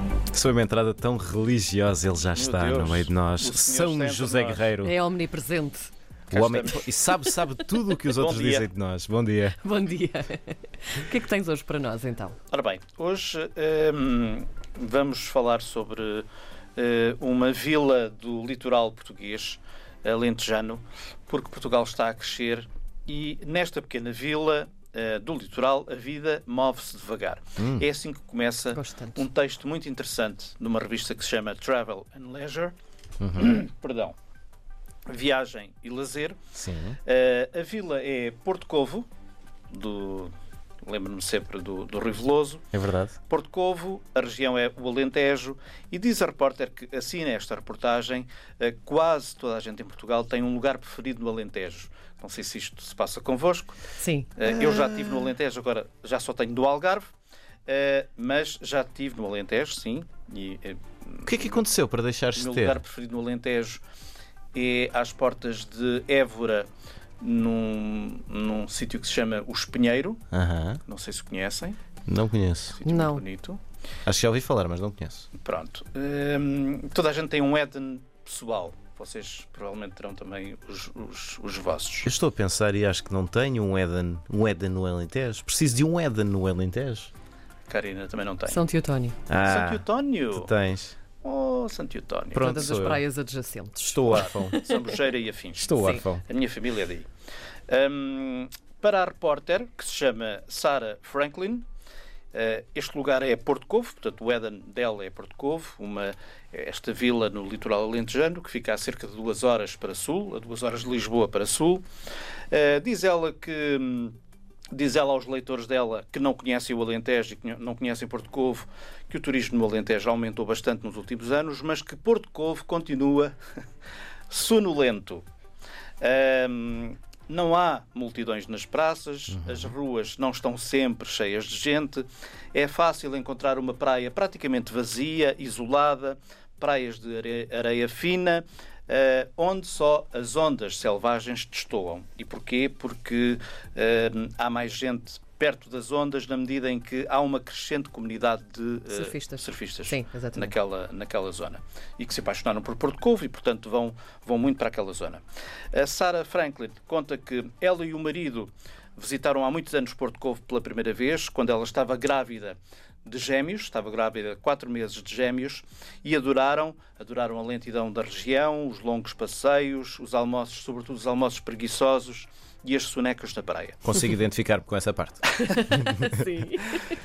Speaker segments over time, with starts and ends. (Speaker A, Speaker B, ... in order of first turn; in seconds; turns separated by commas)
Speaker A: 0.3-4.9, Speaker B: 2.3-4.7, Speaker C: 4.8-5.9, Speaker B: 6.3-6.9, Speaker A: 6.3-9.6, Speaker B: 8.2-8.7, Speaker C: 9.6-12.4, Speaker B: 12.5-32.7, Speaker A: 27.6-27.8, Speaker C: 28.7-29.2, Speaker A: 33.2-33.5, Speaker B: 33.3-34.1, Speaker B: 35.1-36.4, Speaker A: 36.5-37.0, Speaker B: 37.0-39.1, Speaker B: 39.7-42.6, Speaker A: 42.7-43.2, Speaker B: 43.2-53.8, Speaker C: 54.0-54.3, Speaker B: 54.4-57.1, Speaker B: 57.7-61.6, Speaker A: 61.2-62.8, Speaker B: 62.4-63.8, Speaker B: 64.5-66.7, Speaker B: 67.2-70.2, Speaker A: 70.3-70.8, Speaker B: 70.8-71.8, Speaker A: 72.1-72.8, Speaker B: 72.8-73.6, Speaker C: 72.8-73.2, Speaker A: 74.0-75.3, Speaker B: 75.3-82.1, Speaker A: 82.0-87.1, Speaker B: 87.7-88.6, Speaker C: 88.5-89.2, Speaker A: 89.3-91.0, Speaker B: 89.4-90.5, Speaker B: 91.2-92.7, Speaker A: 92.3-93.0, Speaker C: 92.4-94.7, Speaker A: 93.9-94.6, Speaker B: 94.1-97.1, Speaker A: 95.6-96.2, Speaker B: 97.7-101.6, Speaker B: 102.3-111.8, Speaker B: 112.5-114.2, Speaker B: 114.7-123.3, Speaker B: 124.3-125.2, Speaker B: 126.0-155.2, Speaker C: 148.9-150.5, Speaker B: 155.7-173.8, Speaker A: 173.8-175.7, Speaker C: 175.5-176.9